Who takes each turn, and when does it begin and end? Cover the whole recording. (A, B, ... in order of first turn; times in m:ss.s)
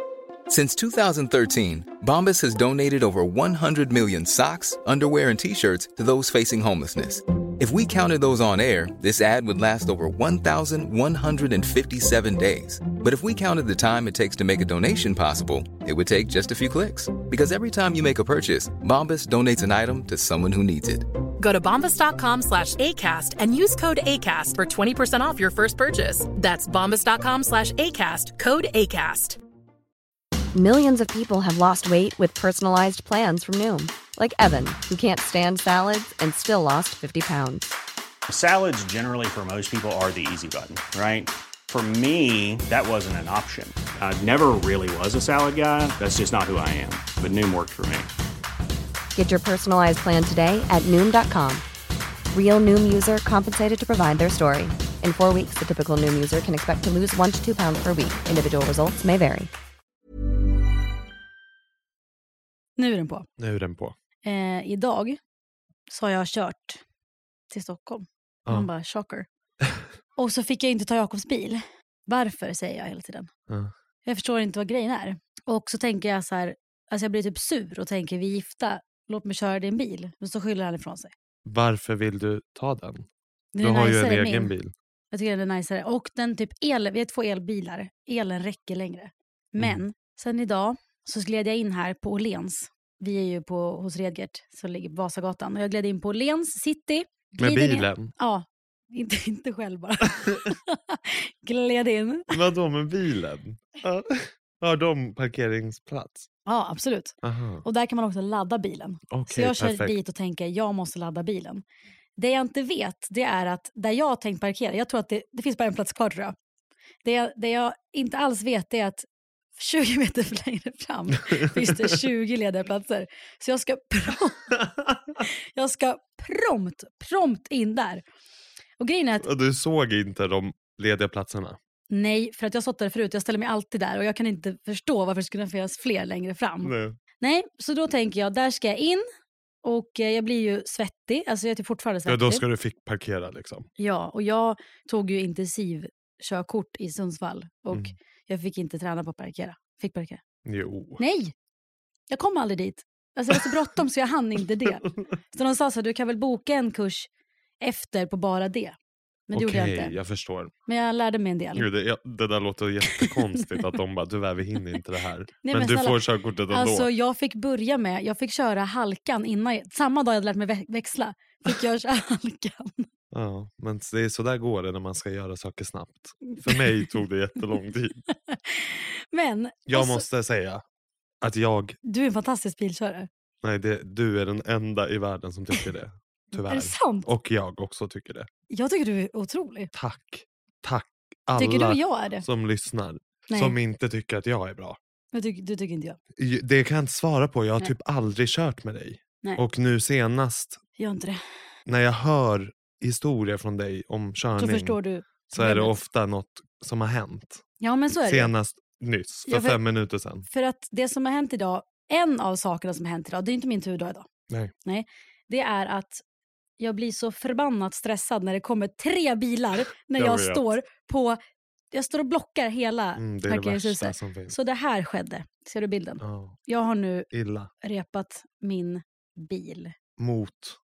0:00.5-0:21.1 A
0:21.4-0:29.4 B
0:30.5-0:37.8 C
0:38.3-0:48.1 D
0:49.1-0:51.6 C
0:52.3-0:59.5 C
1:02.8-1:03.3 E
1:03.4-1:03.9 F
1:04.2-1:05.2 E
1:05.9-1:06.8 E
1:07.5-1:09.3 E
1:10.2-1:13.3 E
1:14.0-1:21.1 E
1:21.4-1:23.0 F
1:23.5-1:24.5 E
1:23.6-1:24.7 F
1:25.1-1:42.3 E
1:37.4-1:38.1 F
1:42.3-1:46.3 F
1:46.4-1:51.6 E
1:47.2-1:47.6 F
1:49.1-1:49.9 F
1:52.2-1:56.4 E
1:57.0-2:04.4 E
2:01.3-2:01.8 F
2:04.5-2:05.0 F
2:05.3-2:08.0 E
2:08.8-2:09.2 E
2:09.2-2:11.6 F
2:11.9-2:19.0 E
2:16.6-2:17.0 F
2:19.6-2:22.4 E
2:22.0-2:23.7 F
2:23.8-2:30.2 E
2:30.4-2:31.0 F
2:31.0-2:31.3 E
2:32.1-2:37.1 E
2:37.6-2:38.8 E
2:39.3-2:39.9 E
2:39.3-2:40.5 F
2:40.7-2:41.6 E
2:41.5-2:46.9 F
2:42.9-2:43.5 E
2:45.4-2:52.9 E
2:53.1-2:58.0 F
2:56.3-2:56.9 E
2:58.1-3:00.0 E
2:59.7-3:00.6 F
3:01.2-3:01.8 F
3:01.8-3:03.1 E
3:03.4-3:08.3 F
3:06.3-3:07.1 E
3:08.5-3:09.7 E
3:09.7-3:14.8 F
3:11.4-3:12.2 E
3:13.3-3:13.6 E
3:15.1-3:16.0 E
3:16.2-3:20.6 F
3:20.8-3:21.2 E
3:21.7-3:24.8 F
3:24.4-3:25.8 E
3:25.3-3:27.4 F
3:27.6-3:28.3 E
3:28.0-3:30.2 F
3:29.3-3:29.6 E
3:30.3-3:34.1 E
3:34.6-3:36.0 E
3:36.6-3:41.2 E
3:40.0-3:40.6 F
3:41.7-3:47.1 E
3:43.0-3:44.4 F
3:46.0-3:46.4 F
3:47.1-3:47.5 F
3:47.6-3:49.7 E
3:50.0-3:50.6 F